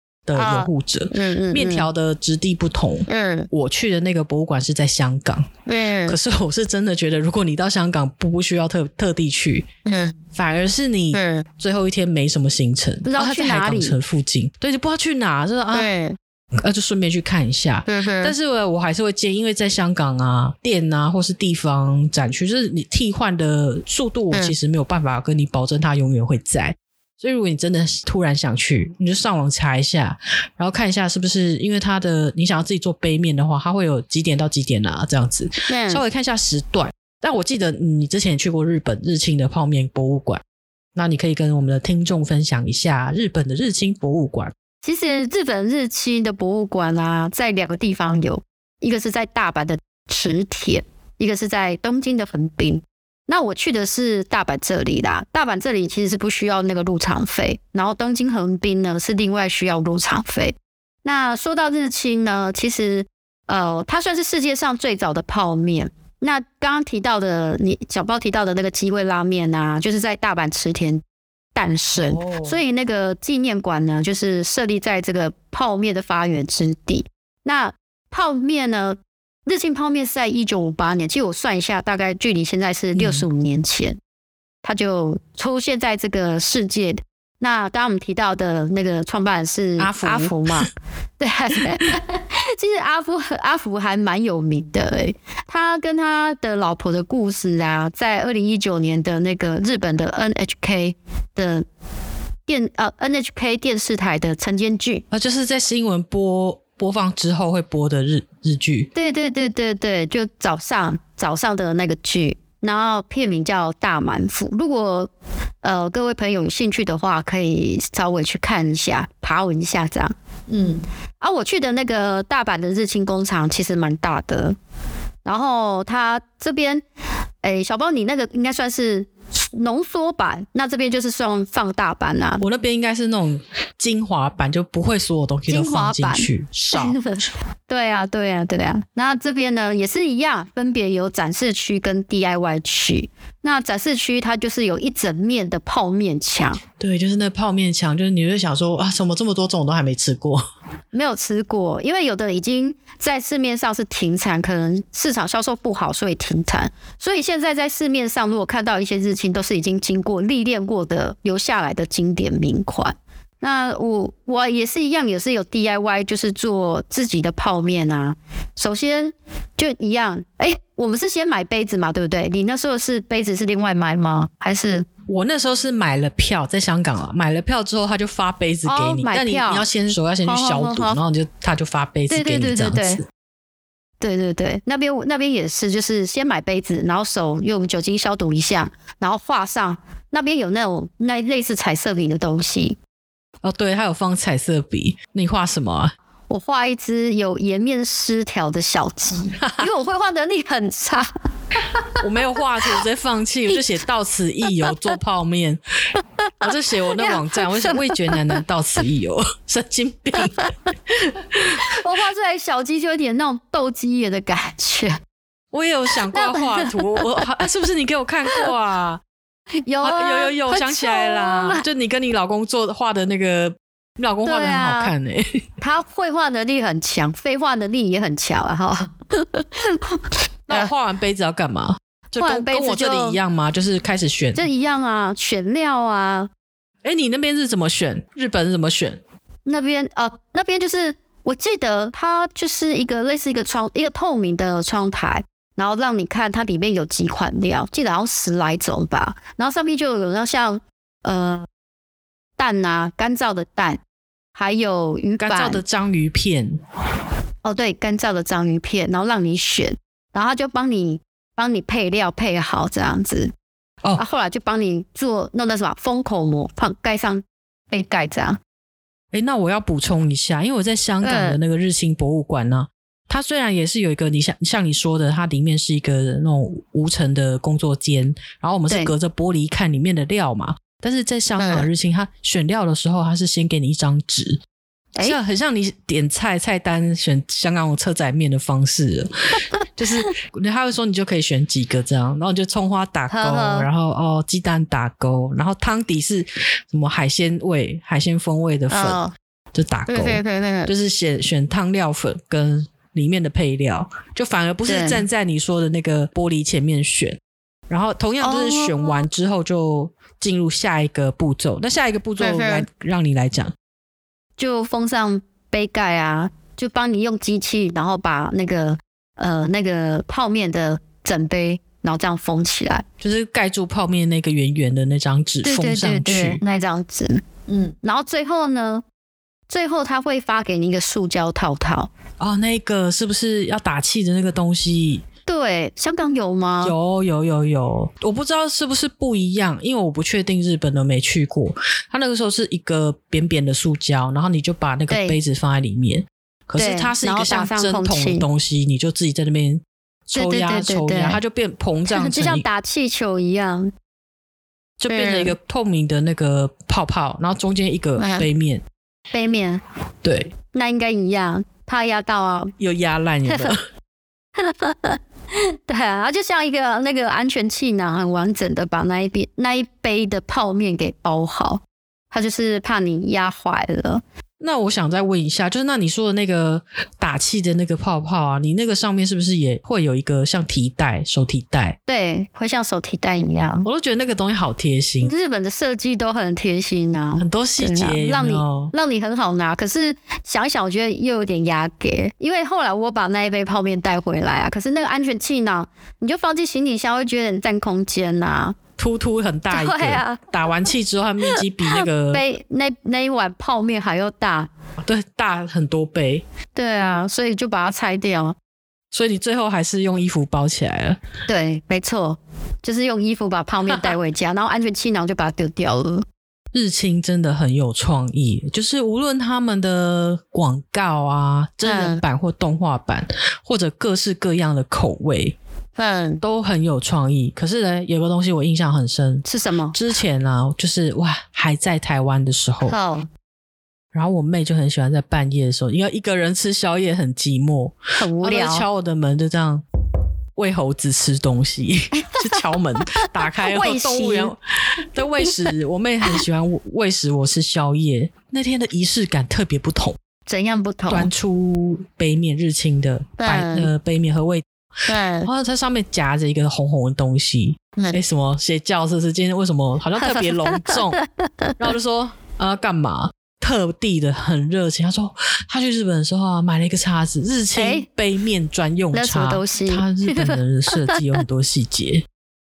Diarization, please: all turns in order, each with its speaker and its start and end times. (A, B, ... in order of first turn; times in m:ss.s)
0:00.3-0:05.5 A
0:00.4-0:01.9 B
0:03.1-0:03.5 B
0:05.7-0:06.2 B
0:06.1-0:09.7 A
0:09.9-0:10.2 B
0:10.3-0:15.9 A
0:11.1-0:11.4 B
0:13.0-0:14.0 B
0:15.7-0:16.2 B
0:16.6-0:40.4 A
0:17.9-0:18.3 B
0:35.7-0:36.0 B
0:41.0-0:44.5 A
0:44.8-1:11.0 B
1:11.6-1:24.0 B
1:12.0-1:12.6 A
1:23.0-1:23.3 A
1:24.6-1:41.6 B
1:29.8-1:30.7 A
1:42.5-1:45.0 B
1:45.1-1:48.9 A
1:48.9-1:55.1 B
1:55.6-2:04.6 B
2:05.2-2:06.8 B
2:07.4-2:12.4 B
2:12.4-2:17.0 A
2:15.5-2:26.6 B
2:26.8-2:30.4 A
2:30.9-2:54.9 B
2:55.1-3:03.0 A
2:58.7-2:59.7 B
3:00.2-3:01.0 B
3:02.1-3:03.0 B
3:04.0-3:12.8 B
3:13.4-3:15.9 A
3:16.3-3:21.1 B
3:19.4-3:19.7 A
3:21.7-3:22.0 B
3:22.0-3:25.6 A
3:26.4-3:31.8 A
3:26.8-3:28.4 B
3:31.5-3:35.0 B
3:35.5-3:39.0 A
3:36.1-3:37.2 B
3:39.6-3:41.6 B
3:39.8-3:45.4 A
3:44.2-3:44.9 B
3:45.6-3:50.7 B
3:50.5-3:54.4 A
3:52.2-3:53.2 B
3:54.4-3:56.3 B
3:56.8-3:59.0 A
3:59.5-4:11.5 B
4:12.4-4:13.8 B
4:14.3-4:15.6 B
4:15.2-4:16.6 A
4:17.4-4:23.3 B
4:24.0-4:28.4 B
4:29.1-4:44.4 A
4:31.0-4:31.4 B
4:38.7-4:38.9 B
4:41.4-4:41.7 B
4:45.0-4:49.1 A
4:49.8-4:59.0 A
4:53.1-4:53.7 B
4:58.7-4:59.1 B
4:59.5-5:13.5 A
4:59.9-5:00.7 B
5:04.7-5:05.0 B
5:08.2-5:09.0 B
5:12.2-5:12.6 B
5:14.4-5:22.8 B
5:23.0-5:26.4 A
5:25.4-5:28.8 B
5:29.5-5:31.9 B
5:32.2-5:35.0 A
5:35.3-5:36.8 B
5:36.6-5:52.4 A
5:44.9-5:45.2 B
5:46.6-5:48.3 B
5:50.2-5:51.2 B
5:51.9-5:53.7 B
5:54.8-5:58.6 A
5:54.9-5:55.4 B
5:58.0-5:58.3 B
5:59.1-5:59.6 B
6:00.0-6:00.3 A
6:00.5-6:02.5 B
6:02.6-6:03.6 A
6:03.3-6:03.5 B
6:04.4-6:14.0 B
6:14.4-6:21.8 A
6:21.9-6:23.7 B
6:23.6-6:25.1 A
6:25.0-6:38.6 B
6:27.2-6:28.7 A
6:38.8-6:42.2 A
6:39.5-6:40.3 B
6:41.2-6:44.5 B
6:44.8-6:46.2 A
6:46.6-6:48.4 B
6:48.9-6:51.0 A
6:51.3-6:56.0 B
6:53.7-6:54.0 A
6:56.5-7:05.4 A
7:01.6-7:02.0 B
7:05.8-7:06.2 B
7:06.2-7:12.8 A
7:09.2-7:09.8 B
7:12.7-7:13.1 B
7:13.9-7:19.6 A
7:18.0-7:18.7 B
7:20.4-7:30.0 A
7:21.9-7:24.3 B
7:25.2-7:25.5 B
7:30.3-7:31.1 B
7:30.9-7:34.4 A
7:33.2-7:33.7 B
7:34.9-7:35.3 B
7:35.2-7:41.0 A
7:40.0-7:41.6 B
7:41.6-7:52.0 A
7:47.6-7:47.9 B
7:48.9-7:51.0 B